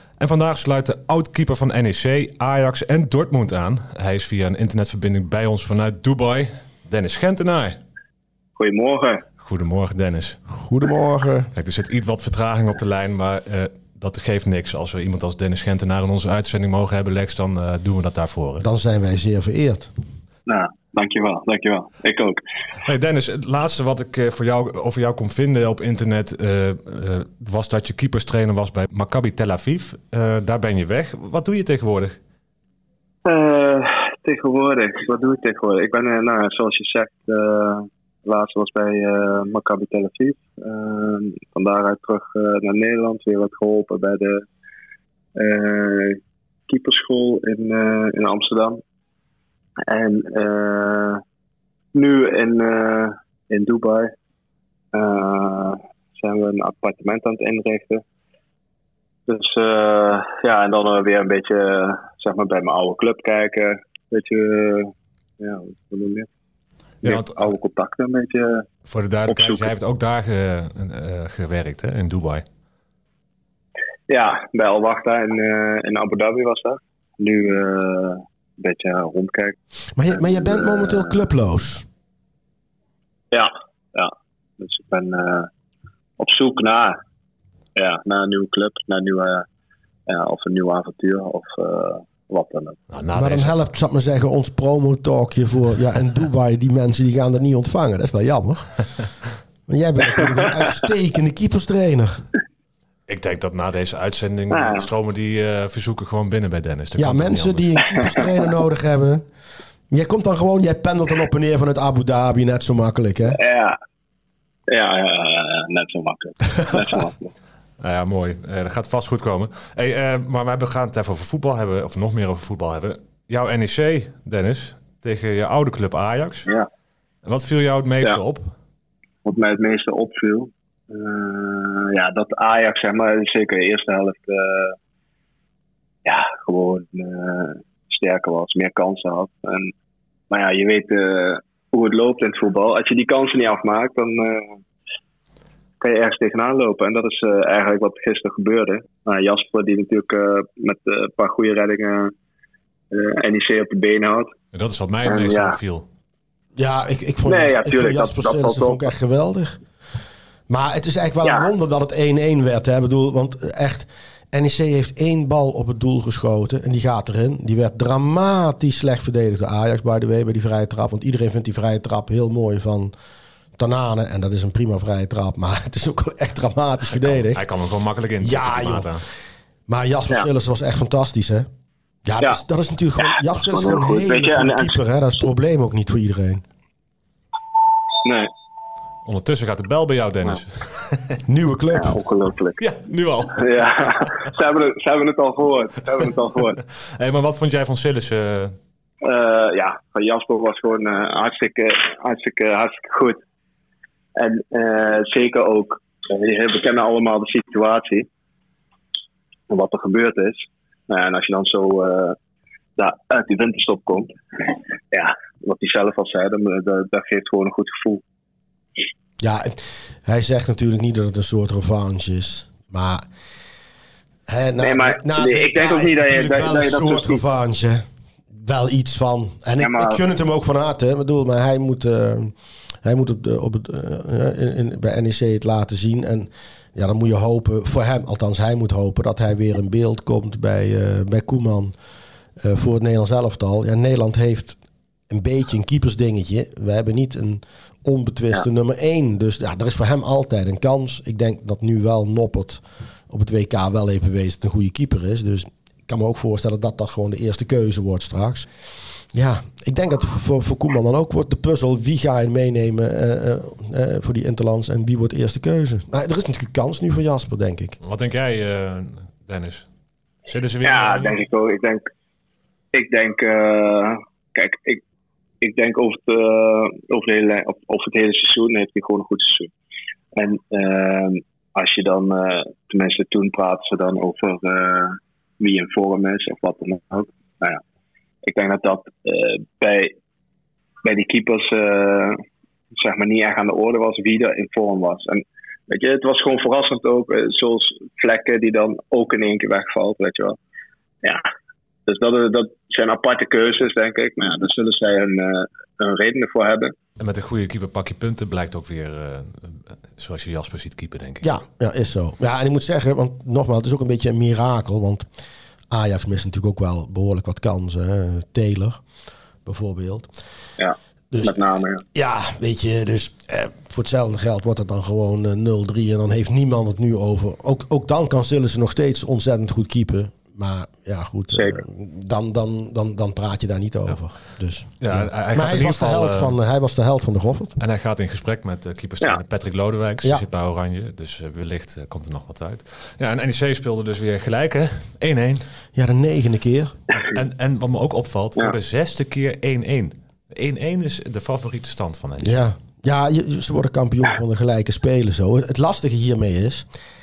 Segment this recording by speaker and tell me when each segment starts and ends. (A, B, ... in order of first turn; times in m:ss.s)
0:00.2-0:07.8 A
0:08.6-0:09.2 B
0:09.4-0:10.4 A
0:10.5-0:11.5 C
0:11.5-0:18.6 A
0:18.6-0:19.9 C
0:20.5-0:22.4 B
0:22.8-0:32.2 A
0:33.2-0:44.5 B
0:45.4-0:48.8 B
0:49.9-0:51.2 B
0:51.9-0:54.1 B
0:54.9-0:58.0 B
0:59.3-1:06.3 B
1:07.0-1:08.7 B
1:07.0-1:07.5 A
1:08.8-1:12.4 A
1:09.3-1:09.7 B
1:14.1-1:19.6 B
1:20.0-1:21.9 C
1:20.1-1:21.2 B
1:23.3-1:25.5 B
1:26.2-1:27.0 B
1:27.8-1:29.4 B
1:30.1-1:32.8 B
1:32.9-1:33.5 A
1:33.1-1:39.0 C
1:39.7-1:42.2 C
1:43.1-1:48.0 A
1:44.5-1:44.9 B
1:47.0-1:49.2 C
1:48.0-1:48.5 B
1:49.9-1:53.4 C
1:53.3-1:53.8 B
1:54.7-1:57.3 B
1:57.8-2:06.5 A
2:07.2-2:08.5 A
2:09.2-2:14.8 B
2:16.0-2:19.7 B
2:20.3-2:24.6 B
2:25.8-2:32.1 B
2:32.9-2:34.3 B
2:34.5-2:35.9 A
2:35.0-2:35.6 B
2:36.6-2:39.6 C
2:37.2-2:38.9 B
2:40.5-2:52.9 C
2:41.2-2:41.5 B
2:53.6-2:57.4 C
2:56.9-2:59.0 A
2:58.2-2:58.9 C
2:59.7-3:01.5 C
3:02.0-3:06.4 C
3:03.0-3:04.8 B
3:08.0-3:08.3 B
3:09.0-3:11.2 A
3:11.3-3:12.0 C
3:11.7-3:12.6 B
3:12.6-3:14.1 A
3:13.3-3:16.6 B
3:16.8-3:18.6 A
3:19.0-3:23.2 B
3:24.2-3:28.1 B
3:29.5-3:32.2 B
3:32.8-3:38.0 B
3:39.2-3:43.0 C
3:44.3-3:52.3 C
3:44.6-3:47.2 B
3:49.6-3:50.0 B
3:52.8-4:01.7 C
4:02.4-4:04.6 C
4:05.1-4:18.5 C
4:19.1-4:27.8 C
4:27.8-4:29.7 A
4:30.2-4:31.2 A
4:30.6-4:31.9 B
4:32.7-4:34.8 B
4:35.4-4:39.5 B
4:40.2-4:47.6 B
4:48.2-4:49.9 B
4:50.8-4:52.2 B
4:52.8-5:00.4 B
5:01.9-5:06.7 B
5:07.0-5:11.3 A
5:11.2-5:15.0 C
5:15.7-5:18.8 C
5:19.4-5:20.1 C
5:20.6-5:21.8 B
5:21.1-5:21.4 C
5:21.9-5:37.6 C
5:31.3-5:31.6 B
5:34.8-5:36.4 A
5:37.6-5:45.4 A
5:45.7-5:46.8 C
5:47.0-5:52.4 A
5:52.2-5:56.7 C